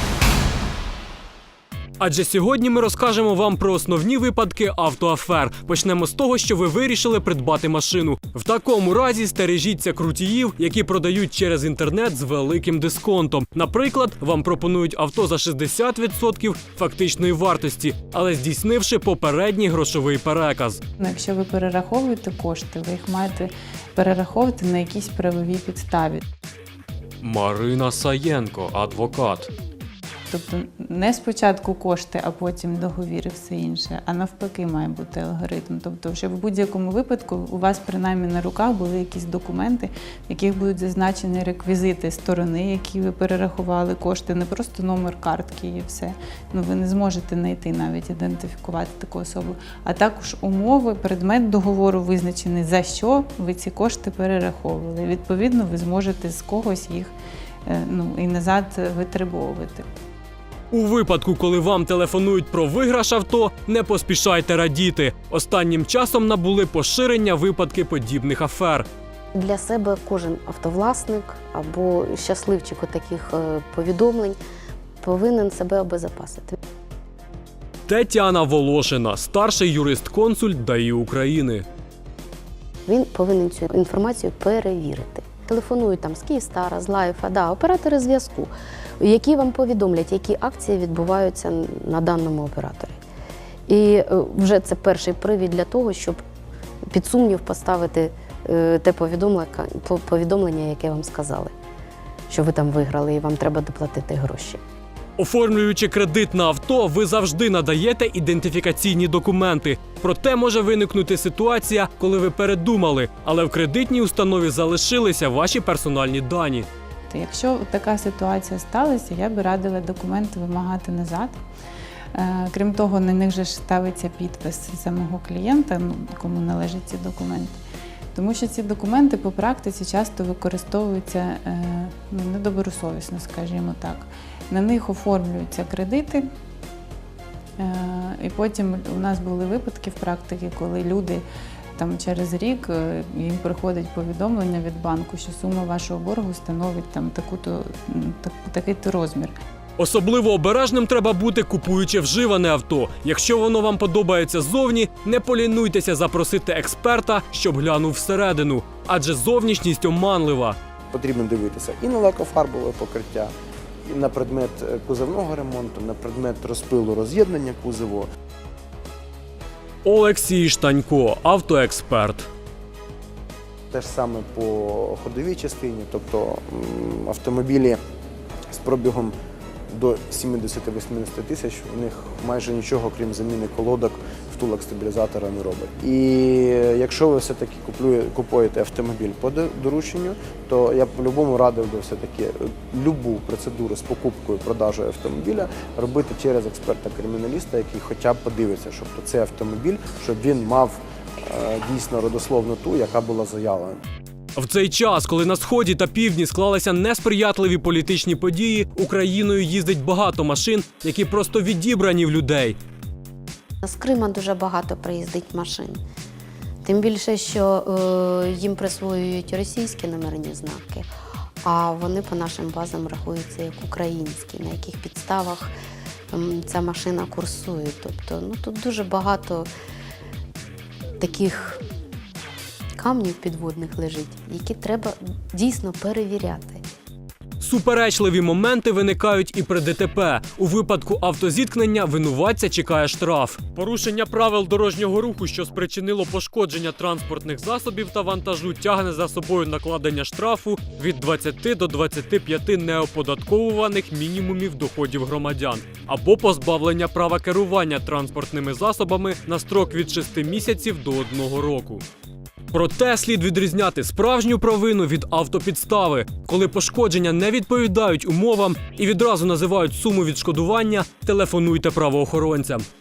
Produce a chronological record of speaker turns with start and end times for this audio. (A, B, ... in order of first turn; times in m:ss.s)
0:02.0-0:20.8 A
0:21.0-0:26.2 B
0:27.2-0:29.5 A
0:30.3-0:57.1 B
0:57.6-0:59.8 B
1:00.7-1:08.9 A
1:09.3-1:14.4 C
1:15.0-1:16.6 C
1:17.9-1:21.6 A
1:22.9-1:33.0 C
1:33.7-1:36.2 C
1:36.9-1:41.5 C
1:42.3-1:44.6 C
1:45.2-1:56.7 A
1:57.1-2:01.4 B
2:02.1-2:07.6 B
2:08.1-2:16.2 B
2:17.6-2:21.2 B
2:21.8-2:29.3 B
2:29.8-2:40.6 A
2:40.9-2:43.3 D
2:43.8-2:48.1 D
2:49.8-2:52.3 A
2:53.7-2:57.8 D
2:58.5-2:59.1 D
2:59.7-3:23.8 D
3:24.3-3:32.6 A
3:33.6-3:35.8 C
3:36.6-3:40.9 C
3:41.4-3:45.5 C
3:46.1-3:49.5 C
3:51.0-3:51.6 C
3:52.8-3:56.6 C
3:57.4-4:21.8 A
4:22.5-4:32.6 A